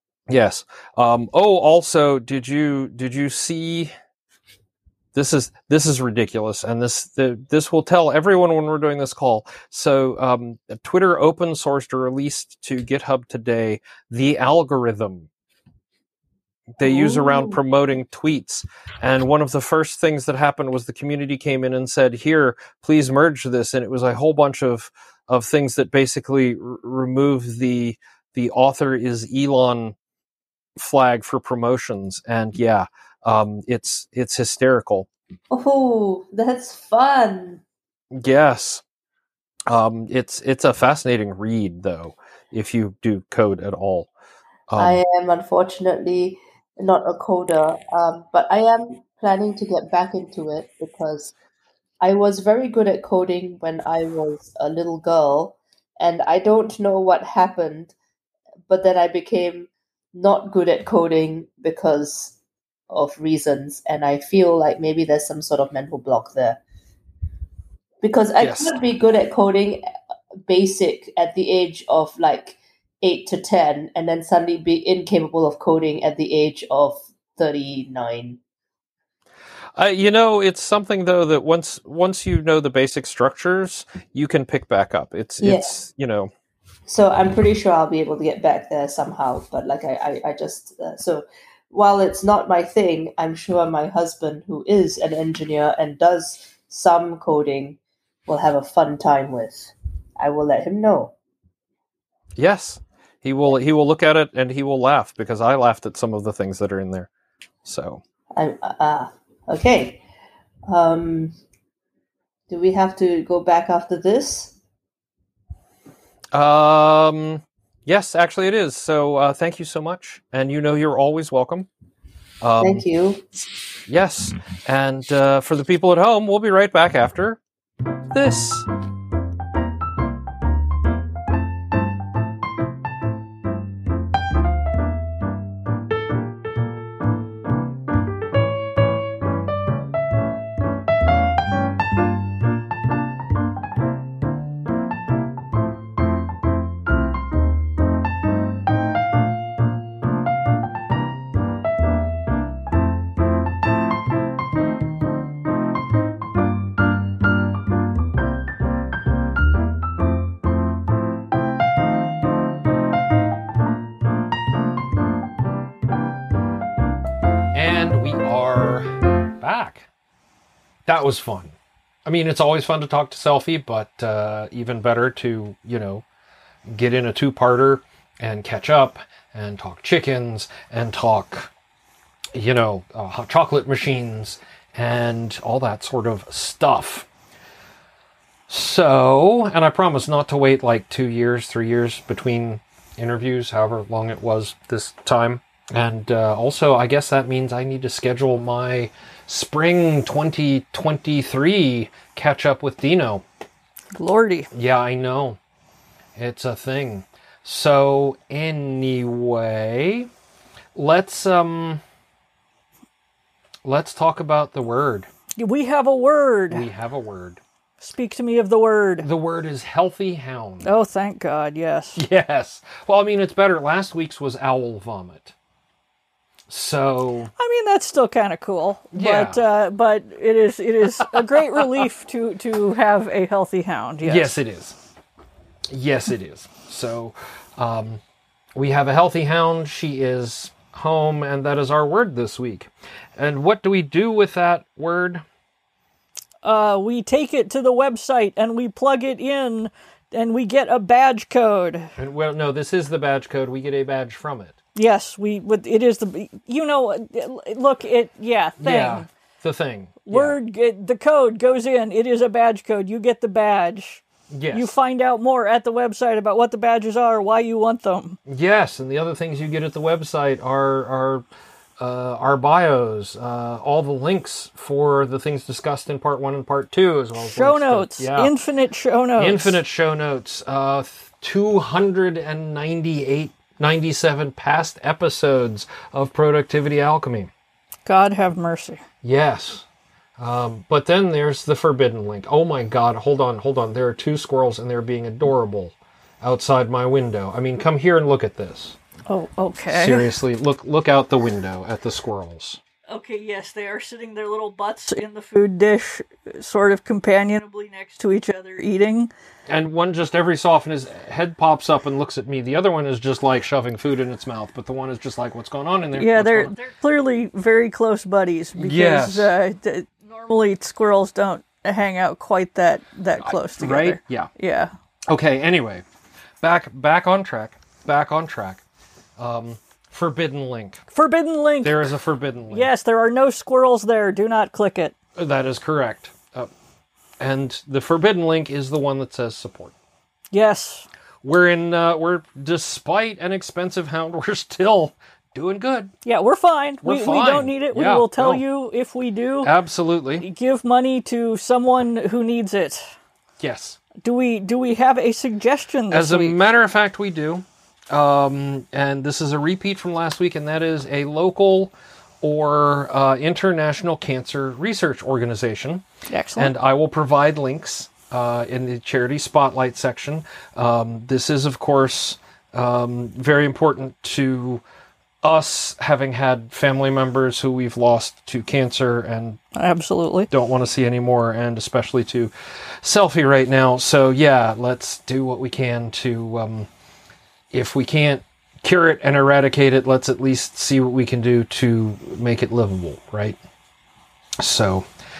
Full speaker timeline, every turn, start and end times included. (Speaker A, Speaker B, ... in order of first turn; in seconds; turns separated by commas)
Speaker A: 0.3-3.9, Speaker A: 5.1-15.3, Speaker A: 16.8-29.9, Speaker B: 16.8-17.6, Speaker A: 30.8-35.1, Speaker B: 35.5-37.6, Speaker A: 38.1-38.8, Speaker A: 39.7-44.1, Speaker A: 44.7-45.0, Speaker B: 44.8-51.3, Speaker B: 52.0-57.9, Speaker B: 58.7-62.4, Speaker B: 62.9-66.6, Speaker B: 68.0-69.8, Speaker A: 68.4-68.8, Speaker B: 70.4-78.4, Speaker A: 79.8-86.3, Speaker B: 85.4-85.8, Speaker B: 86.9-101.1, Speaker A: 102.4-107.1, Speaker A: 107.6-108.0, Speaker B: 108.4-110.0, Speaker B: 110.7-111.4, Speaker B: 112.5-114.5, Speaker A: 116.3-121.7, Speaker A: 122.4-122.8, Speaker B: 122.6-123.3, Speaker A: 123.9-127.4, Speaker A: 128.1-128.7, Speaker A: 167.5-169.9, Speaker A: 170.9-171.6, Speaker A: 172.1-176.0, Speaker A: 176.7-181.5, Speaker A: 182.3-187.1, Speaker A: 188.5-203.2, Speaker C: 203.9-204.5, Speaker A: 204.5-205.4, Speaker A: 206.2-210.1, Speaker A: 210.8-211.8, Speaker A: 213.7-215.1, Speaker C: 215.4-216.7, Speaker A: 216.5-217.4, Speaker C: 217.8-219.1, Speaker A: 219.0-220.7, Speaker C: 220.6-222.0, Speaker A: 222.0-225.3, Speaker A: 226.5-227.3, Speaker C: 227.4-234.3, Speaker A: 228.9-229.4, Speaker A: 231.0-231.8, Speaker A: 234.0-234.8, Speaker A: 235.7-238.0, Speaker A: 238.6-245.2, Speaker C: 246.4-251.9, Speaker A: 252.0-254.6, Speaker C: 254.8-259.1, Speaker A: 258.6-260.4, Speaker C: 260.1-268.2, Speaker A: 264.3-264.8, Speaker A: 268.3-271.2, Speaker A: 271.8-278.3, Speaker C: 277.2-279.6, Speaker A: 279.2-287.3, Speaker C: 287.9-288.8, Speaker A: 289.0-289.6, Speaker A: 290.2-298.8, Speaker C: 299.1-300.1, Speaker A: 299.7-302.6, Speaker C: 302.9-309.1, Speaker A: 309.5-316.5, Speaker C: 316.0-324.7, Speaker A: 318.6-319.3, Speaker A: 323.2-324.3, Speaker A: 325.1-325.8, Speaker A: 326.4-328.6, Speaker A: 329.2-330.8, Speaker C: 330.9-331.9, Speaker A: 331.6-332.7, Speaker C: 332.5-334.9, Speaker A: 335.2-336.5, Speaker A: 337.2-339.7, Speaker C: 340.3-340.9, Speaker A: 341.2-345.9, Speaker C: 346.1-349.5, Speaker A: 346.8-348.4, Speaker A: 349.4-350.3, Speaker C: 350.2-352.9, Speaker A: 353.4-353.8, Speaker C: 354.0-356.4, Speaker A: 355.9-365.9, Speaker C: 366.1-366.5, Speaker A: 366.4-374.6, Speaker A: 375.2-379.4, Speaker C: 379.6-380.3, Speaker A: 380.3-386.7, Speaker A: 387.5-393.4, Speaker A: 394.4-394.9